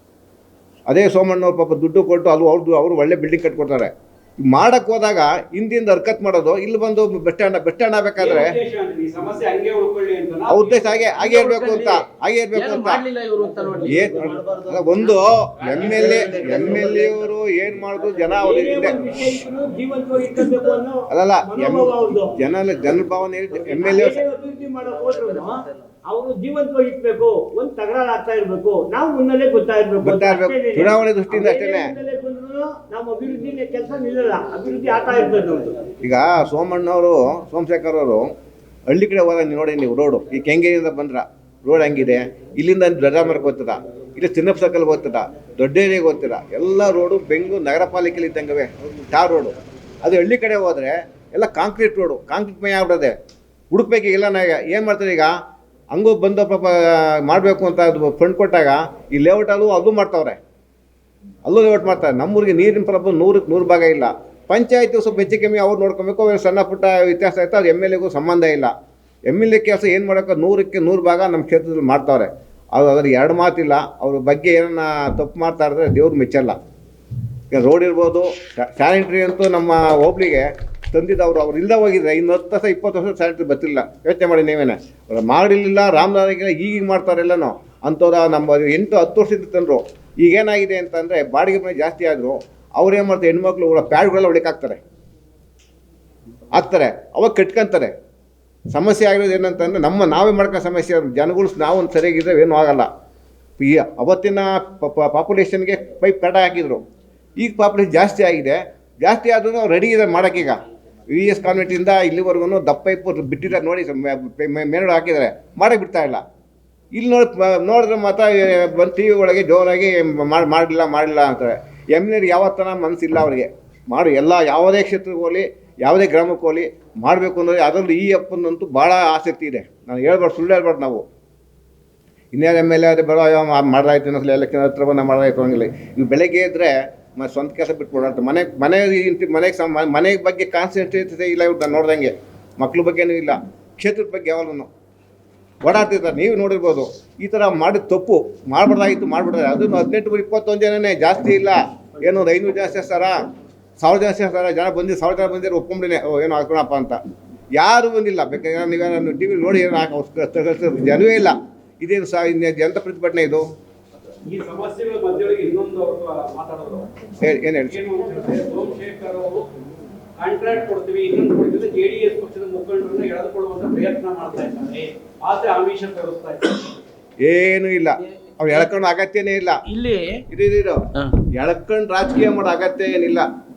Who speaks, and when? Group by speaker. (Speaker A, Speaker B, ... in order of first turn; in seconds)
Speaker A: 0.9-8.6, 10.5-13.0, 13.9-19.0, 21.1-24.2, 30.0-31.9, 36.0-38.3, 38.9-53.1, 53.7-55.4, 55.9-60.4, 61.5-68.7, 69.3-76.6, 77.5-94.8, 96.5-97.9, 98.7-102.9, 103.6-106.8, 107.4-116.2, 116.9-131.1, 132.3-144.7, 145.6-153.2, 153.8-157.0, 157.6-163.5, 167.2-167.9, 177.2-179.6, 180.3-183.3
Speaker B: 8.2-10.9, 15.7-16.4, 164.3-166.9, 167.7-169.5, 170.2-176.6
Speaker C: 11.2-12.0, 12.6-14.3, 179.7-180.2
Speaker D: 15.8-17.2, 18.4-22.4, 23.6-35.8